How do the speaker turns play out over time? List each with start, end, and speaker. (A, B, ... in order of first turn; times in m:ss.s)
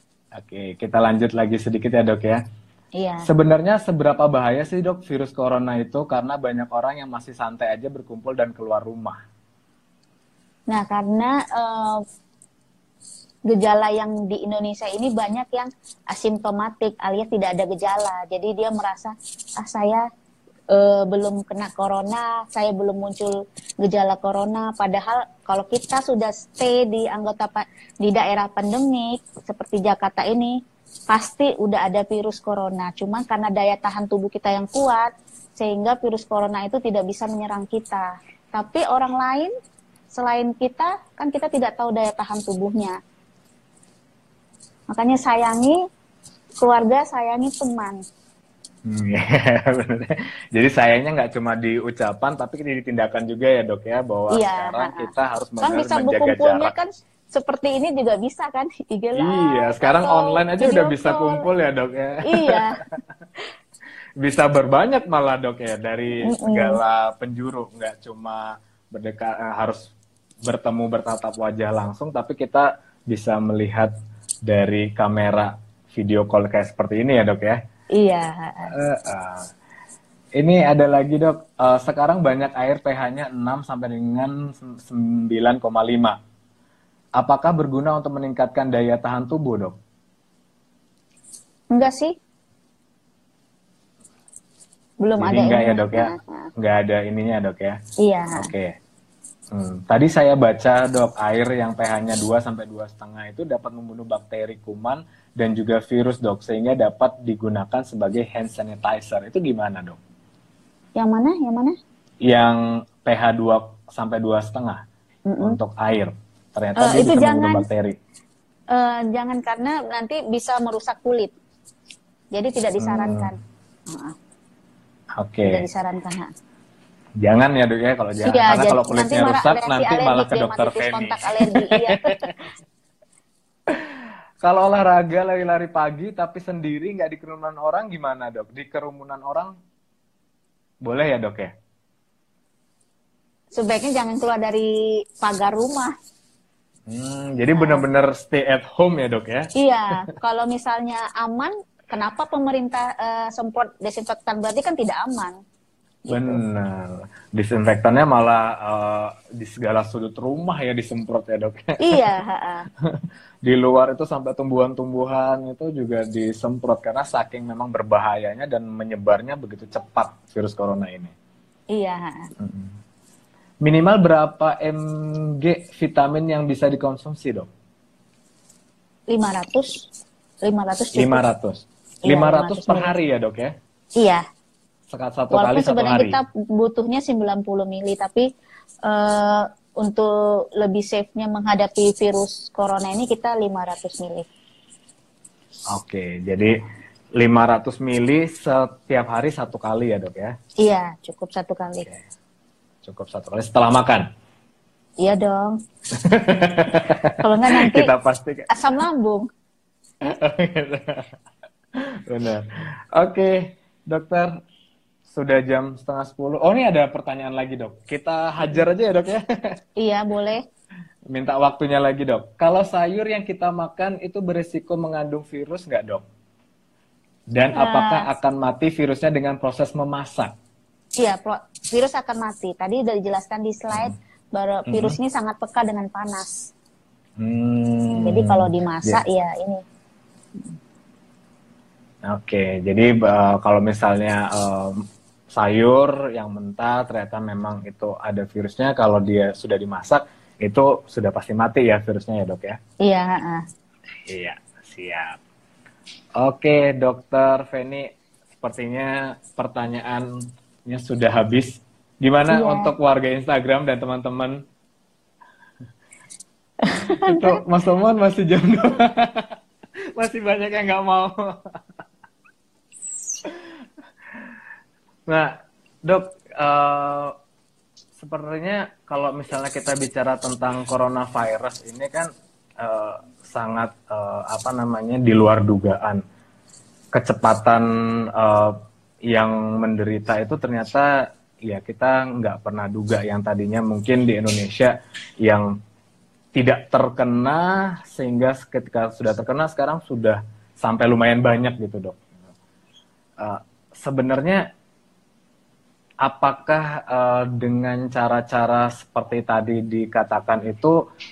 0:00.4-0:02.4 A
0:03.0-0:03.2 B
0:03.2-0:09.2 A
0:10.7-0:12.0 B
0:13.5-0:20.0 B
0:20.7-0:39.5 B
0:40.1-0:43.0 B
0:44.9-0:45.8 B
0:46.6-0:48.0 B
0:48.8-0:56.7 A
0:54.3-0:55.1 B
0:55.6-1:01.4 B
0:59.1-1:02.6 A
1:02.2-1:02.8 B
1:04.2-1:09.9 A
1:06.2-1:06.8 B
1:10.4-1:13.9 A
1:14.4-1:17.6 A
1:17.9-1:18.7 B
1:18.6-1:19.5 A
1:20.4-1:26.2 A
1:27.2-1:29.8 A
1:31.7-1:32.2 B
1:35.0-1:36.5 B
1:35.2-1:37.8 A
1:38.0-1:38.5 B
1:38.3-1:38.8 A
1:39.5-1:50.0 A
1:51.0-1:51.8 B
1:52.2-1:54.8 A
1:55.3-1:55.6 B
1:55.4-1:58.0 A
1:56.8-1:57.6 B
1:58.7-2:01.3 B
2:02.3-2:03.4 B
2:02.8-2:03.3 A
2:03.9-2:04.2 B
2:05.2-2:05.6 A
2:05.4-2:06.3 B
2:07.2-2:12.3 A
2:08.2-2:12.2 B
2:13.7-2:19.5 A
2:20.8-2:21.5 A
2:23.5-2:25.9 B
2:26.9-2:29.5 A
2:27.6-2:27.8 B
2:29.5-2:35.4 B
2:36.1-2:36.4 B
2:36.1-2:42.0 A
2:41.8-2:42.7 B
2:42.8-2:51.1 A
2:51.7-2:52.3 B
2:52.4-2:52.8 A
2:53.6-2:57.5 A
2:59.1-2:59.9 B
3:00.4-3:01.2 B
3:00.9-3:03.5 A
3:02.0-3:02.9 B
3:04.0-3:04.2 B
3:04.9-3:06.2 A
3:05.3-3:08.3 B
3:08.8-3:14.3 B
3:15.7-3:16.6 A
3:17.2-3:20.4 A
3:20.6-3:21.9 B
3:22.8-3:24.1 A
3:25.0-3:25.6 B
3:25.9-3:28.5 A
3:27.1-3:27.9 B
3:28.5-3:29.3 B
3:30.0-3:31.1 A
3:32.0-3:34.4 A
3:35.1-3:39.5 A
3:39.8-3:40.4 B
3:41.1-3:46.0 A
3:47.3-3:50.3 A
3:47.6-3:48.0 B
3:51.0-3:56.5 B
3:54.7-3:55.0 A
3:57.2-3:59.0 A
3:58.0-3:59.6 B
4:02.0-4:12.6 A
4:12.8-4:13.4 B
4:14.0-4:15.2 A
4:16.2-4:17.9 A
4:18.4-4:24.4 A
4:22.3-4:22.7 B
4:26.6-4:27.4 B
4:26.9-4:29.3 A
4:29.9-4:31.4 A
4:35.1-4:37.1 A
4:38.0-4:46.0 A
4:46.9-4:55.5 A
4:56.3-5:02.1 A
5:03.2-5:04.4 A
5:06.0-5:10.8 A